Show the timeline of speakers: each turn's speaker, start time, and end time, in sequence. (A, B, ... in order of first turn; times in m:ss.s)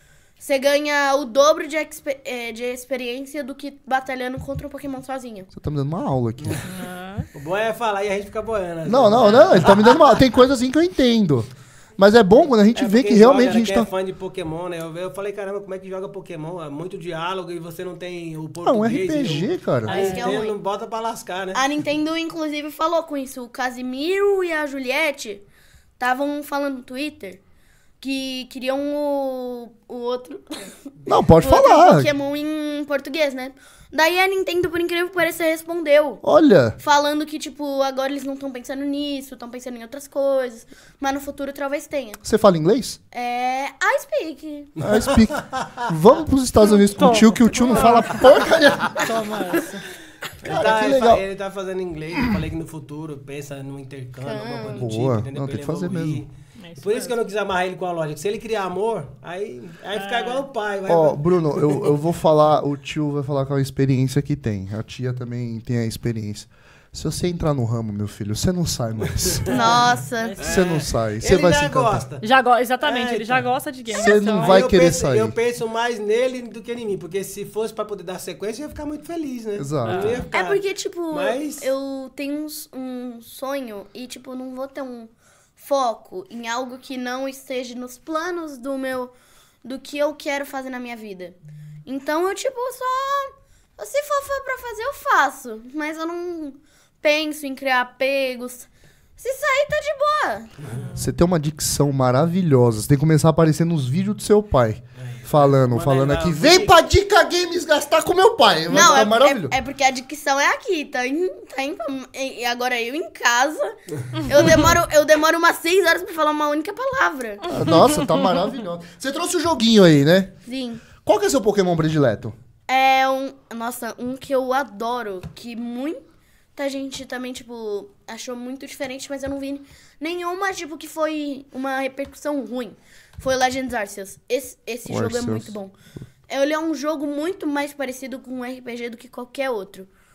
0:00.4-0:05.5 A
0:05.5-0:06.6 B
0:06.4-0:06.7 C
0:06.7-0:07.3 D
0:07.3-0:10.1 C
0:08.8-0:13.9 B
0:12.8-0:21.6 C
0:18.6-0:20.0 B
0:19.9-0:20.4 D
0:19.9-0:20.6 A
0:21.5-0:25.4 A
0:26.0-0:27.4 A
0:28.0-0:30.7 A
0:31.1-0:32.1 B
0:31.4-0:36.2 A
0:36.2-0:36.8 B
0:36.8-0:42.2 A
0:42.2-0:43.0 B
0:43.1-0:44.7 A
0:44.8-0:45.9 C
0:44.8-0:49.3 B
0:46.8-0:49.9 D
0:50.4-1:01.9 C
0:50.4-0:51.2 B
0:54.2-0:54.9 A
0:54.7-0:56.2 B
0:56.6-0:57.1 D
0:59.9-1:00.4 D
1:00.9-1:09.7 B
1:09.2-1:09.7 C
1:09.5-1:10.4 A
1:09.5-1:10.7 D
1:10.4-1:12.2 C
1:10.4-1:12.1 B
1:12.2-1:14.6 D
1:12.8-1:13.5 C
1:13.9-1:15.4 B
1:14.3-1:21.7 C
1:19.6-1:20.2 B
1:19.8-1:20.3 D
1:20.3-1:29.1 A
1:29.6-1:40.5 A
1:40.8-1:41.1 D
1:41.0-1:49.6 B
1:45.0-1:46.8 C
1:48.7-1:57.7 A
1:57.5-2:00.3 B
2:00.5-2:00.8 A
2:01.0-2:02.4 B
2:02.7-2:06.0 A
2:06.6-2:15.7 A
2:14.9-2:15.6 B
2:16.3-2:19.9 A